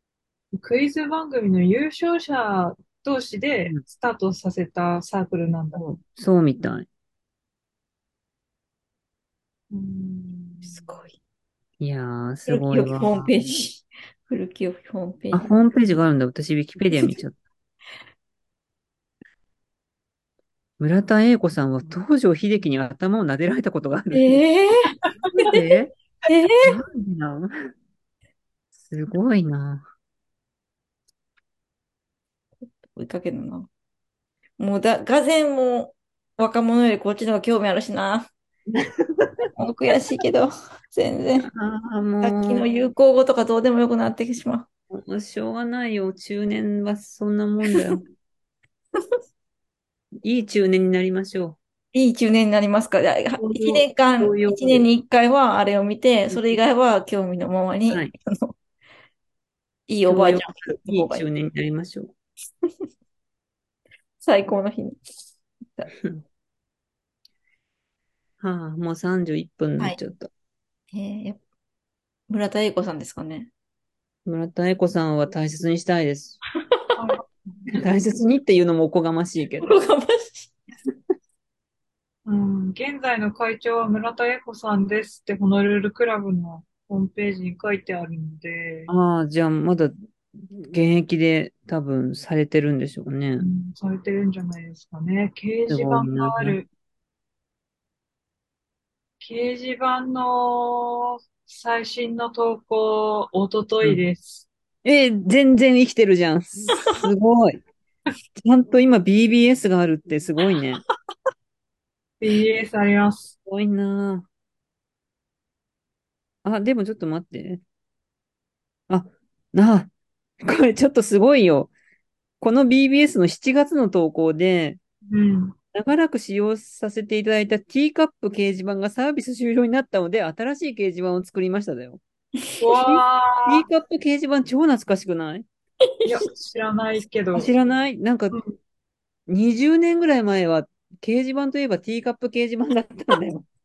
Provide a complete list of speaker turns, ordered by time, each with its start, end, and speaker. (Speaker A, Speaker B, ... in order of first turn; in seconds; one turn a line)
Speaker A: 0.5-5.9
Speaker B: 5.7-6.9
Speaker A: 9.7-11.0
Speaker C: 10.6-11.1
Speaker B: 11.8-13.3
Speaker C: 12.5-15.5
Speaker B: 15.3-17.4
Speaker B: 20.8-24.4
Speaker C: 24.1-24.9
Speaker B: 25.4-26.0
Speaker C: 26.3-26.8
Speaker B: 26.6-27.5
Speaker B: 28.8-29.9
Speaker C: 32.9-33.7
Speaker C: 34.6-38.3
Speaker B: 38.7-39.5
Speaker C: 39.6-41.5
Speaker B: 41.4-42.7
Speaker C: 42.2-44.7
Speaker B: 44.9-48.0
Speaker B: 50.2-51.6
Speaker C: 51.9-58.6
Speaker B: 53.4-54.9
Speaker B: 56.3-56.6
Speaker C: 59.9-61.2
Speaker B: 60.1-62.1
Speaker C: 64.2-65.0
Speaker B: 68.4-70.3
Speaker C: 70.9-71.4
Speaker C: 72.3-73.5
Speaker B: 74.3-76.4
Speaker A: 77.0-77.2
Speaker B: 77.7-79.8
Speaker C: 79.6-80.5
Speaker A: 82.3-88.9
Speaker B: 88.9-89.9
Speaker B: 90.5-93.5
Speaker A: 93.4-96.7
Speaker B: 95.7-96.6
Speaker A: 99.2-104.5
Speaker B: 104.8-107.6
Speaker B: 108.4-110.8
Speaker A: 112.2-113.3
Speaker B: 113.5-114.3
Speaker B: 116.4-117.6
Speaker B: 118.9-119.9
Speaker B: 120.4-121.7
Speaker B: 122.4-124.8
Speaker A: 125.1-125.6
Speaker B: 125.7-132.0
Speaker A: 132.6-133.7
Speaker B: 132.8-135.5
Speaker C: 136.0-136.3
Speaker A: 136.1-137.5
Speaker B: 137.3-138.4
Speaker B: 139.3-143.5